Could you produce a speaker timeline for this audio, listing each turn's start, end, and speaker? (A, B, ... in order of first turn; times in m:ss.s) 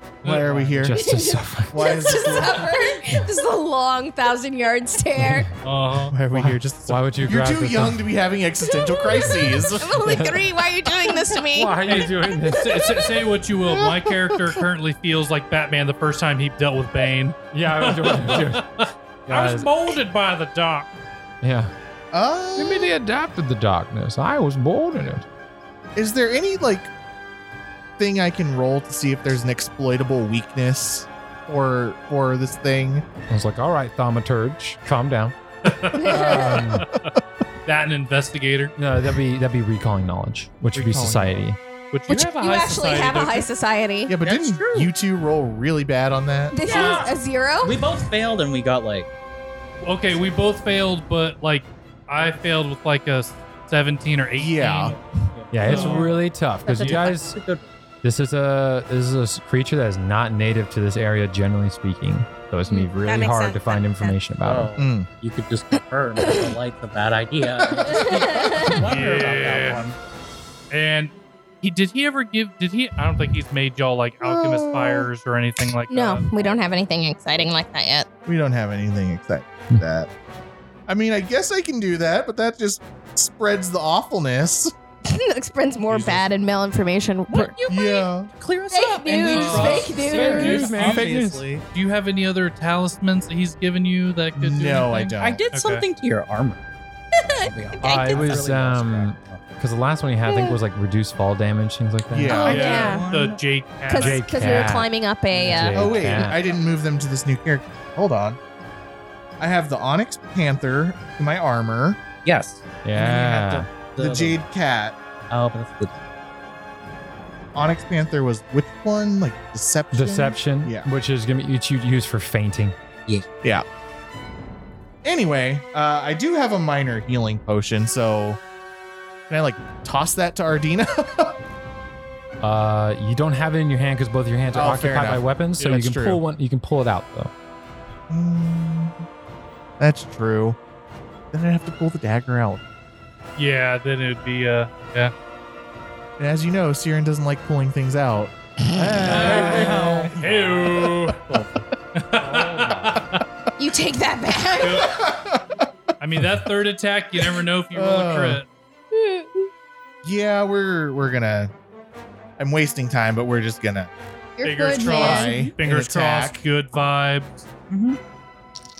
0:00.2-0:00.8 A
0:00.2-0:01.0 B
0:00.8-0:02.5 C
0:00.9-0:05.5 D
0:01.7-0:02.7 B
0:05.2-0:05.4 C
0:05.6-0:06.1 A
0:06.1-0:10.0 B
0:06.3-0:08.0 C
0:08.8-0:13.0 D
0:10.0-0:10.4 C
0:11.5-0:12.8 C
0:11.8-0:20.9 A
0:17.5-0:18.6 C
0:19.3-0:19.7 C
0:21.4-0:21.7 C
0:22.1-0:22.9 B
0:22.6-0:25.2 C
0:26.0-0:26.9 B
0:28.0-0:33.0 B
0:33.3-0:35.4 C
0:35.6-0:37.1 A
0:35.9-0:36.6 D
0:36.0-0:36.8 C
0:37.6-0:38.7 A
0:38.8-0:41.6 C
0:40.7-0:41.4 B
0:41.9-0:43.5 A
0:42.1-0:44.2 D
0:44.1-0:46.6 B
0:44.2-0:44.9 E
0:46.5-0:48.0 D
0:46.6-0:49.1 E
0:46.7-0:47.0 A
0:49.8-0:54.9 A
0:54.4-0:55.0 B
0:54.8-0:57.7 E
0:55.5-0:57.4 C
0:55.6-0:56.1 A
0:58.0-1:04.7 C
1:02.7-1:04.2 D
1:04.4-1:10.0 E
1:04.8-1:05.1 B
1:05.8-1:06.5 D
1:07.7-1:08.8 D
1:08.8-1:09.8 A
1:10.7-1:16.3 A
1:14.5-1:15.0 B
1:15.9-1:18.1 D
1:18.2-1:20.1 B
1:20.9-1:24.7 B
1:25.0-1:27.6 D
1:25.9-1:26.2 A
1:27.3-1:31.3 E
1:27.7-1:28.3 B
1:28.7-1:30.7 D
1:29.3-1:31.1 A
1:29.8-1:31.4 C
1:30.7-1:31.6 B
1:31.7-1:35.8 A
1:34.4-1:35.4 B
1:35.2-1:36.6 E
1:37.2-1:38.4 D
1:37.4-1:39.4 E
1:37.8-1:42.4 C
1:40.2-1:40.6 D
1:42.1-1:42.7 B
1:42.3-1:43.0 D
1:42.4-1:43.4 E
1:42.5-1:44.7 A
1:43.9-1:46.0 D
1:43.9-1:44.9 C
1:45.3-1:46.5 E
1:45.4-1:46.4 C
1:45.7-1:48.4 B
1:49.4-1:52.0 B
1:52.2-1:54.5 E
1:52.8-1:53.7 C
1:54.0-1:55.0 B
1:55.3-1:55.9 E
1:57.5-2:00.9 B
1:59.9-2:02.7 C
2:05.0-2:08.4 B
2:09.3-2:11.4 B
2:12.4-2:17.3 C
2:14.5-2:15.2 B
2:15.6-2:15.9 A
2:15.8-2:16.2 B
2:18.1-2:19.0 B
2:19.8-2:20.6 B
2:21.3-2:22.6 B
2:23.4-2:25.1 A
2:26.2-2:31.2 B
2:29.0-2:30.2 E
2:29.1-2:31.2 A
2:31.9-2:33.2 A
2:33.6-2:35.0 D
2:34.6-2:35.0 A
2:34.8-2:35.6 B
2:36.0-2:38.4 A
2:37.7-2:38.4 B
2:38.9-2:39.5 D
2:40.0-2:41.5 B
2:42.4-2:43.9 B
2:44.4-2:45.4 D
2:44.4-2:47.5 A
2:44.8-2:46.4 B
2:47.7-2:48.0 E